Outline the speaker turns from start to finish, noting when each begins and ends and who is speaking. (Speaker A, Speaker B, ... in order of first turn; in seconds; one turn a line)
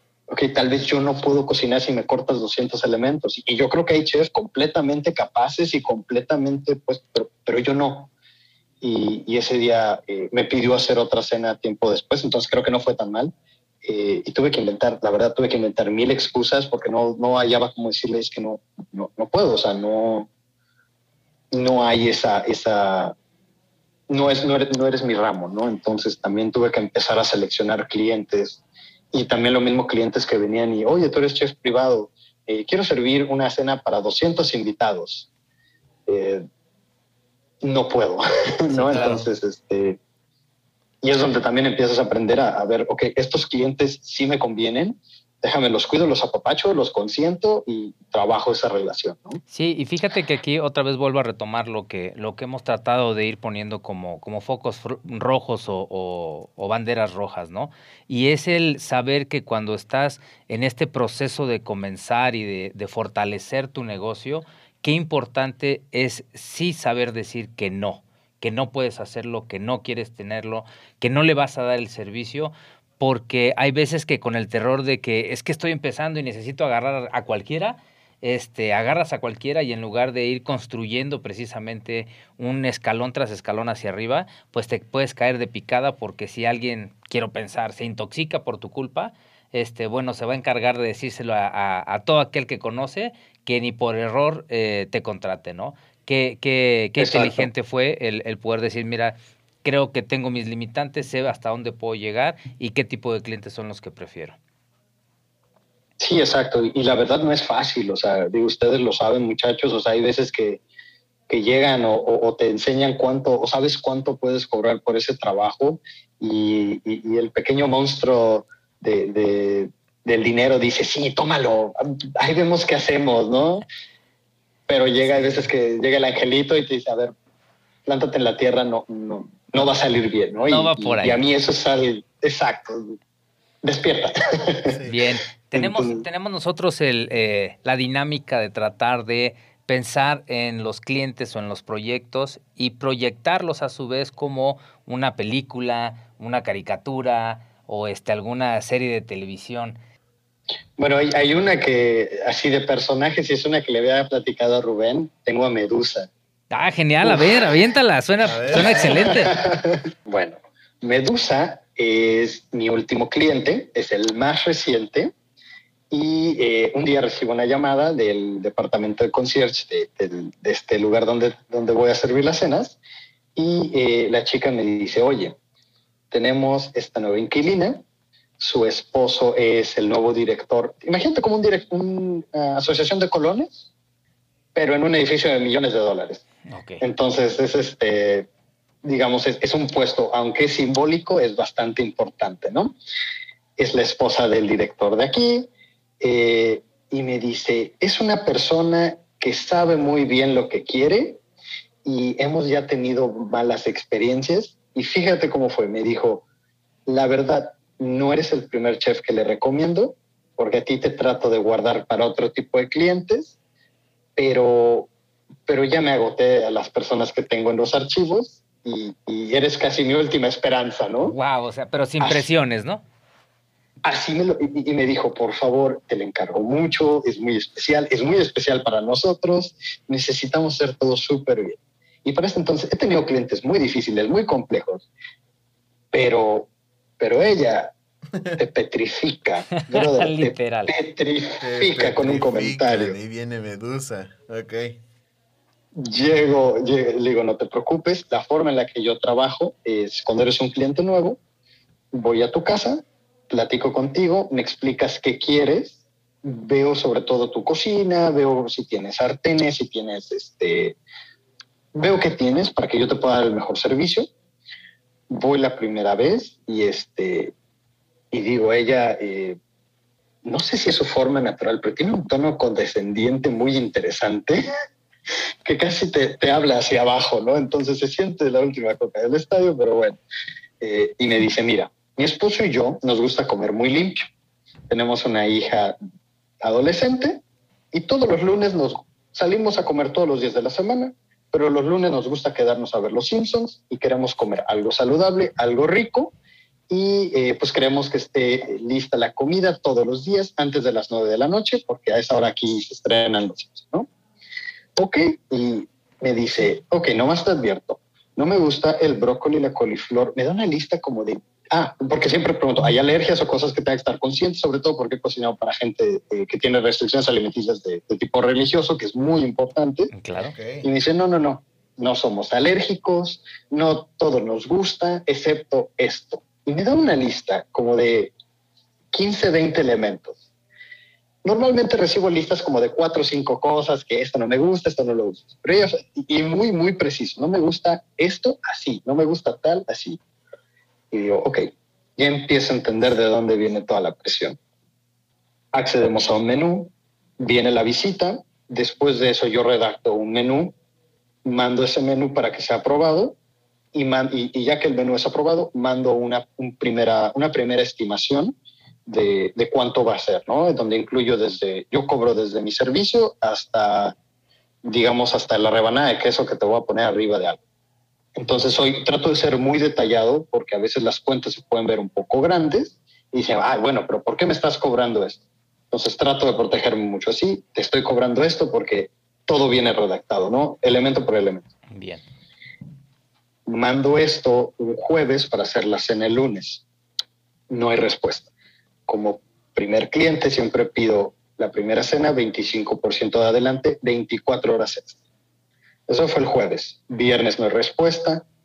Speaker A: 0.3-8.1
Speaker A: 8.8-13.3
Speaker A: 13.8-20.3
Speaker A: 21.5-23.1
Speaker A: 24.1-28.6
Speaker A: 29.1-35.3
Speaker A: 36.1-36.4
Speaker A: 37.6-40.0
Speaker B: 38.7-39.2
Speaker C: 38.9-39.3
Speaker A: 41.0-49.4
Speaker B: 49.5-104.4
Speaker A: 97.0-97.5
Speaker A: 106.0-110.6
Speaker A: 111.3-123.6
Speaker A: 124.7-127.1
Speaker A: 127.8-132.9
Speaker B: 130.4-131.2
Speaker A: 133.6-134.8
Speaker C: 134.7-135.0
Speaker B: 134.9-149.8
Speaker A: 135.5-136.0
Speaker A: 150.8-156.1
Speaker B: 156.5-159.4
Speaker C: 158.2-159.2
Speaker A: 158.5-165.1
Speaker A: 165.9-172.8
Speaker A: 173.3-175.4
Speaker A: 176.1-177.8
Speaker A: 178.4-183.7
Speaker A: 184.5-186.2
Speaker B: 186.5-186.8
Speaker A: 186.8-188.3
Speaker A: 188.8-192.7
Speaker A: 193.6-195.5
Speaker A: 196.0-201.2
Speaker A: 201.8-206.2
Speaker A: 206.9-213.3
Speaker A: 214.2-214.9
Speaker A: 215.5-221.2
Speaker B: 221.0-222.8
Speaker A: 223.8-234.8
Speaker A: 235.9-237.7
Speaker A: 238.3-243.0
Speaker B: 239.6-240.7
Speaker C: 241.4-244.8
Speaker A: 245.7-251.2
Speaker A: 251.9-260.8
Speaker A: 261.7-264.1
Speaker A: 265.1-267.3
Speaker A: 268.1-269.4
Speaker A: 270.2-274.4
Speaker A: 275.4-280.0
Speaker A: 280.6-284.1
Speaker A: 284.7-285.8
Speaker A: 286.4-296.1
Speaker A: 296.7-303.9
Speaker A: 304.8-319.9
Speaker B: 319.9-320.3
Speaker C: 320.2-320.6
Speaker A: 320.6-328.1
Speaker A: 328.9-330.2
Speaker A: 331.2-340.0
Speaker A: 340.9-344.4
Speaker A: 345.5-350.5
Speaker A: 351.2-353.2
Speaker A: 353.7-358.3
Speaker A: 358.9-363.9
Speaker A: 364.6-367.4
Speaker A: 368.1-375.2
Speaker A: 375.7-381.4
Speaker B: 381.7-382.0
Speaker A: 383.5-386.6
Speaker A: 387.5-388.3
Speaker A: 388.9-395.0
Speaker A: 395.9-398.2